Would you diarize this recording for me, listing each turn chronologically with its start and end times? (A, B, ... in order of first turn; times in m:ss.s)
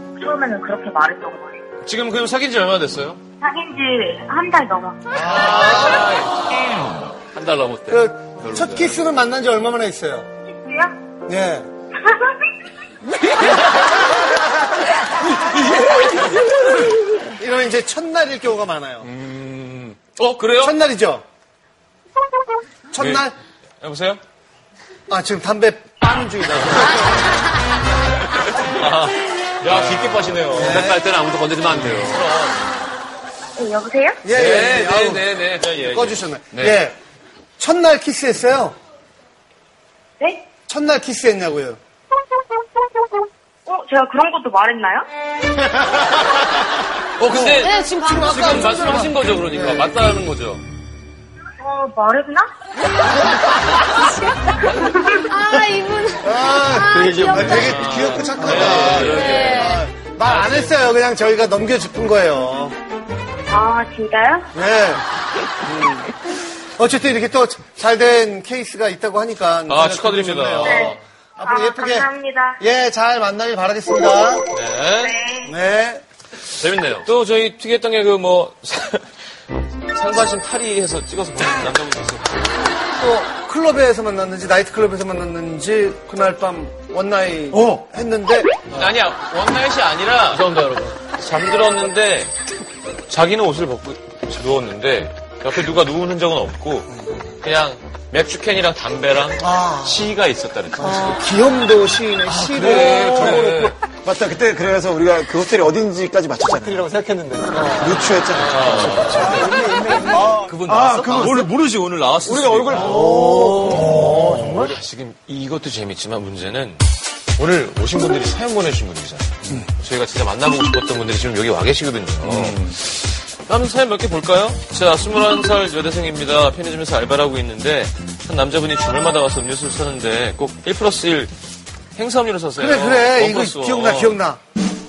0:00.2-0:01.6 A
0:01.8-0:03.2 B
0:03.4-0:05.2 A
0:05.1-0:06.1 C
0:05.4-0:06.5 D
0:07.2-0:09.0 D
0:07.9-0:10.3 C
0:10.5-0:11.0 A
0:11.3-0:11.7 C
0:14.1-0:14.5 C
0:15.6-0:16.3 C
0:17.2-0:19.1 C
0:19.2-0:19.9 B
0:19.3-0:20.7 D
0:20.6-0:21.2 C
0:22.9-0:23.3 C
0:23.8-0:24.2 B
0:25.1-0:27.4 C
0:28.8-0:32.3 D
0:29.6-0:30.7 B
0:30.5-0:31.0 C
0:31.8-0:32.6 B
0:33.6-0:34.3 A
0:34.2-0:37.0 C
0:34.3-0:35.9 D
0:35.8-0:36.1 B
0:36.5-0:36.8 D
0:37.6-0:38.8 C
0:40.2-0:40.5 A
0:40.7-0:41.8 C
0:43.6-0:45.1 A
0:47.2-0:50.6 D
0:47.3-0:49.9 C
0:47.7-0:48.3 E
0:51.6-0:52.5 A
0:54.7-0:55.1 A
0:55.3-0:59.7 E
0:56.2-1:02.7 C
0:57.0-0:57.4 F
0:57.5-0:59.8 B
0:57.9-0:59.6 D
1:03.5-1:04.5 A
1:04.5-1:05.0 C
1:05.6-1:06.1 C
1:06.8-1:14.4 C
1:09.7-1:10.7 B
1:09.7-1:10.0 D
1:10.6-1:12.6 A
1:14.5-1:15.0 B
1:14.9-1:15.5 A
1:15.4-1:16.0 C
1:16.6-1:18.6 D
1:17.0-1:19.0 B
1:19.9-1:22.4 B
1:20.0-1:20.4 D
1:21.1-1:21.9 D
1:23.0-1:28.5 C
1:28.7-1:31.7 D
1:28.7-1:30.5 B
1:31.2-1:32.3 B
1:33.1-1:36.9 B
1:37.4-1:41.2 B
1:39.4-1:40.1 C
1:40.8-1:43.8 C
1:42.5-1:43.4 F
1:42.6-1:43.3 B
1:42.6-1:43.7 D
1:44.0-1:51.5 F
1:47.5-1:48.1 C
1:48.5-1:49.6 B
1:50.4-1:51.2 D
1:50.5-1:53.3 B
1:52.2-1:54.8 F
1:52.8-1:54.1 C
1:54.0-1:56.8 B
1:57.4-2:02.8 B
2:02.1-2:02.8 D
2:03.5-2:11.3 B
2:03.5-2:04.8 D
2:05.5-2:06.0 D
2:06.8-2:07.7 D
2:08.6-2:09.3 D
2:10.4-2:11.2 D
2:12.0-2:14.1 B
2:12.0-2:14.1 D
2:12.6-2:14.4 C